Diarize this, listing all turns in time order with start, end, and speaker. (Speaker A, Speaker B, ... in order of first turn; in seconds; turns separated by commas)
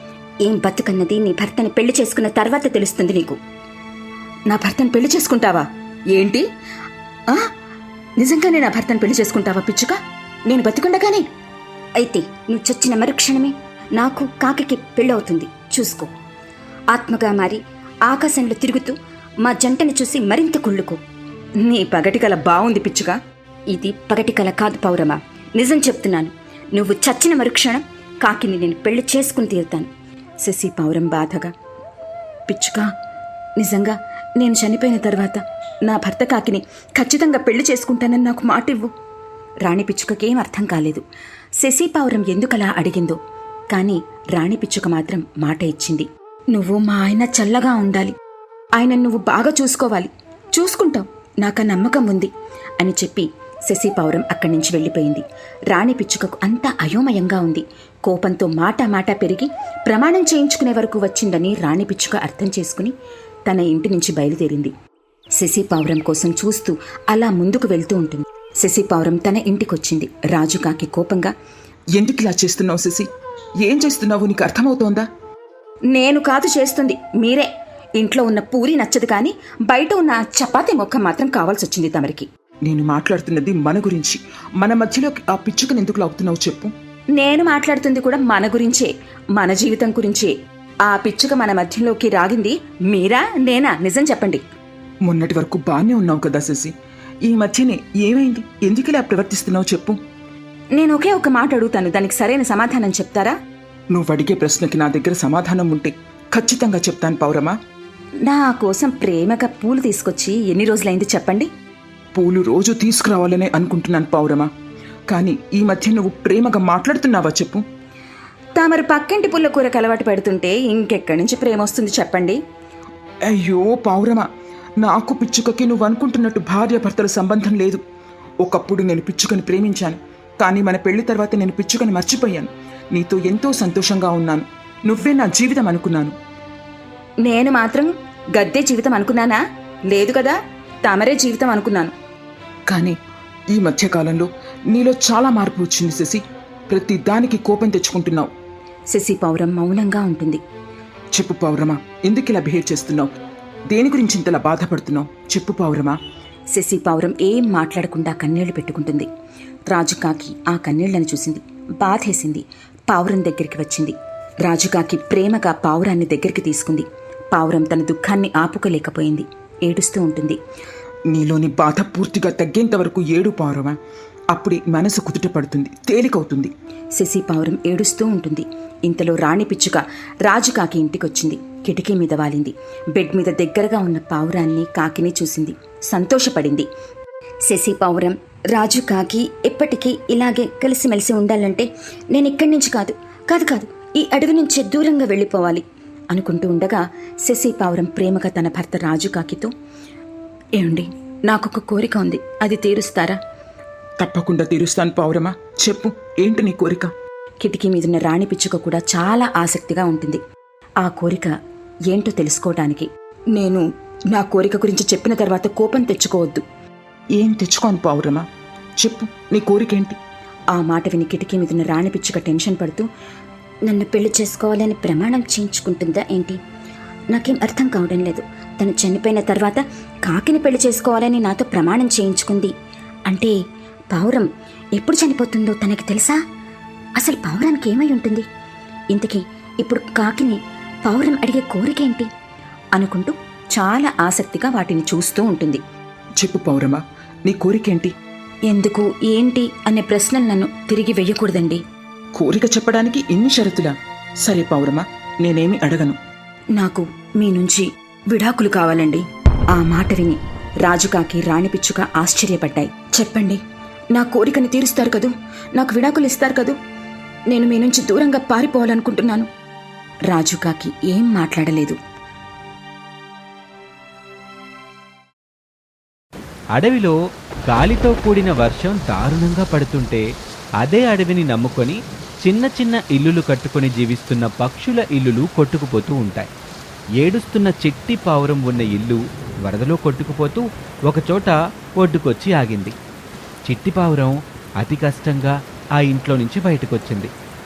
Speaker A: 0.4-3.4, Speaker A: 4.5-6.4, Speaker A: 8.2-11.2, Speaker A: 12.0-16.1, Speaker A: 16.9-21.0, Speaker A: 21.6-23.2, Speaker A: 23.7-29.9, Speaker A: 30.4-31.5, Speaker A: 32.5-32.9, Speaker A: 33.6-38.9, Speaker A: 39.6-41.0, Speaker A: 41.6-43.2, Speaker A: 43.7-48.1, Speaker A: 48.8-62.9, Speaker A: 63.5-64.7, Speaker A: 65.4-71.3, Speaker B: 72.0-73.1, Speaker B: 73.6-75.0, Speaker A: 75.9-77.5, Speaker A: 78.0-82.3, Speaker B: 82.7-86.7, Speaker A: 87.2-90.3, Speaker A: 90.8-94.4, Speaker B: 95.0-96.7, Speaker B: 97.3-100.0, Speaker A: 100.7-103.3, Speaker B: 103.9-107.5, Speaker A: 108.2-111.5, Speaker B: 112.1-114.5, Speaker B: 115.1-117.6, Speaker A: 118.6-122.4, Speaker B: 123.3-124.3, Speaker B: 124.8-127.8, Speaker B: 128.4-136.1, Speaker A: 137.2-141.9, Speaker B: 142.7-142.9, Speaker B: 143.5-148.3, Speaker A: 148.9-150.4, Speaker B: 151.1-153.1, Speaker B: 153.7-156.0, Speaker A: 156.5-159.1, Speaker A: 159.7-170.4, Speaker B: 171.1-173.8, Speaker B: 174.3-176.5, Speaker A: 177.0-186.7, Speaker A: 187.5-199.5, Speaker A: 200.6-203.2, Speaker B: 204.0-206.9, Speaker A: 207.4-210.2, Speaker A: 210.8-211.3, Speaker A: 211.9-216.4, Speaker B: 217.2-218.2, Speaker B: 218.8-220.0, Speaker A: 220.5-222.9, Speaker A: 223.7-226.4, Speaker A: 227.1-232.5, Speaker A: 233.1-233.3, Speaker A: 233.9-236.2, Speaker A: 237.0-238.3, Speaker A: 238.9-242.1, Speaker A: 242.8-245.6, Speaker B: 246.2-247.9, Speaker A: 248.5-251.6, Speaker B: 252.2-256.0, Speaker A: 256.6-263.4, Speaker A: 263.9-266.6, Speaker A: 267.3-269.3, Speaker A: 270.1-271.8, Speaker C: 276.6-276.9, Speaker C: 277.5-280.0, Speaker C: 280.6-286.3, Speaker C: 287.0-292.7, Speaker C: 293.4-297.1